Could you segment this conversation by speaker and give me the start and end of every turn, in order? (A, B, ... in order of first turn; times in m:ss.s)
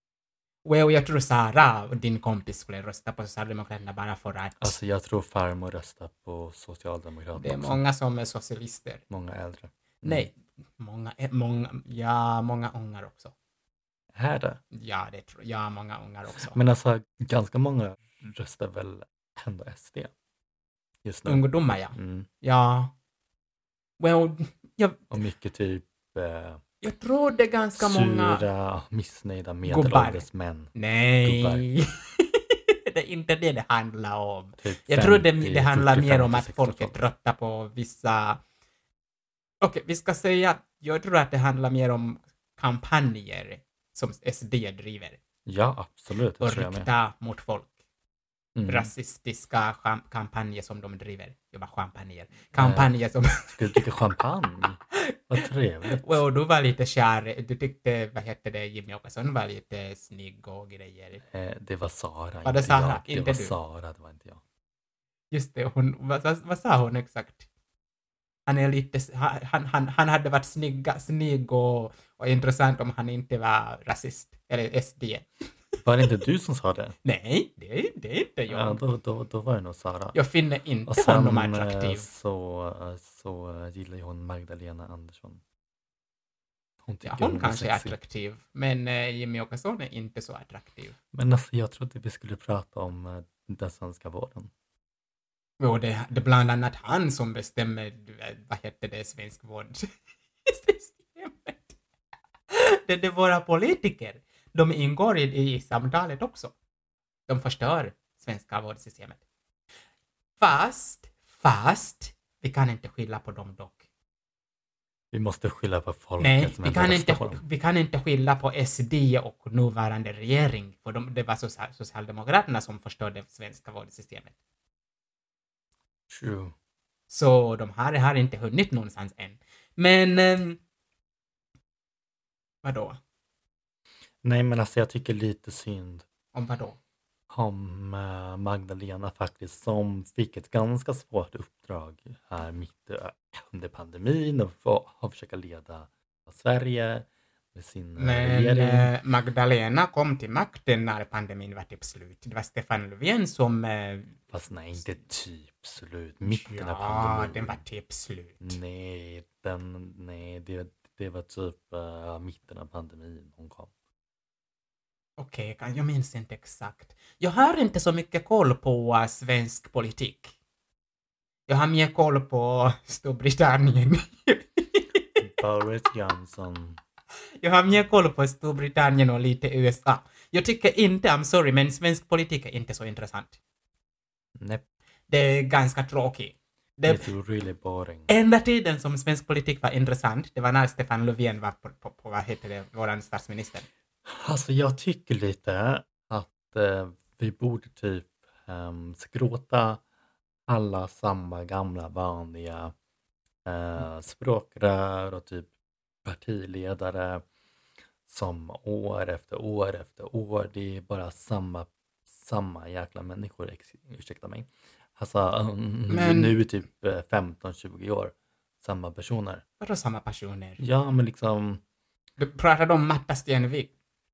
0:00.6-0:04.8 A
0:04.6-0:07.8 B
0:07.4-0:09.0 A
0:09.1-0:10.3 B
0:10.0-0:13.3 A
0:14.1-0:14.6 B
0:14.7-0:16.6 A
0:16.5-0:20.1 B
0:21.0-0:22.3 B
0:21.2-0:22.9 A
0:24.0-0:25.0 A
0:25.1-0:26.6 B
0:26.8-0:28.4 A
0:27.8-0:31.7 B
0:29.6-0:38.4 A
0:34.6-0:37.0 B
0:39.6-0:45.2 A
0:45.4-0:46.9 B
0:46.4-0:47.7 A
0:48.5-0:48.9 B
0:48.7-0:53.8 A
0:52.5-0:52.9 B
0:53.5-0:56.2 B
0:54.9-1:01.2 A
1:01.2-1:04.4 B
1:02.4-1:03.5 A
1:05.3-1:07.5 A
1:08.5-1:15.3 A
1:15.8-1:17.0 B
1:17.0-1:18.8 A
1:18.5-1:20.2 B
1:20.1-1:22.1 A
1:20.8-1:25.4 B
1:26.8-1:28.0 B
1:27.0-1:30.9 A
1:31.1-1:34.5 B
1:35.6-1:39.8 A
1:40.4-1:41.7 A
1:42.5-1:46.5 A
1:47.3-1:49.2 A
1:50.4-1:53.8 A
1:55.1-1:57.4 B
1:56.2-2:04.3 A
2:06.1-2:06.5 B
2:07.1-2:10.6 A
2:12.6-2:13.0 A
2:14.2-2:16.0 B
2:16.3-2:16.8 A
2:17.3-2:28.9 B
2:28.0-2:34.2 A
2:34.3-2:37.6 B
2:36.2-2:38.6 A
2:38.4-2:43.7 B
2:45.2-2:50.3 A
2:51.5-2:55.0 A
2:55.2-2:56.8 B
2:57.4-3:03.4 A
3:04.4-3:04.6 B
3:05.1-3:07.1 A
3:06.8-3:08.1 B
3:08.1-3:13.7 A
3:14.0-3:19.8 B
3:20.5-3:22.7 B
3:23.4-3:25.5 B
3:26.0-3:27.2 B
3:28.1-3:39.4 B
3:35.9-3:36.3 A
3:39.6-3:40.6 A
3:40.6-3:41.6 B
3:42.2-3:43.7 A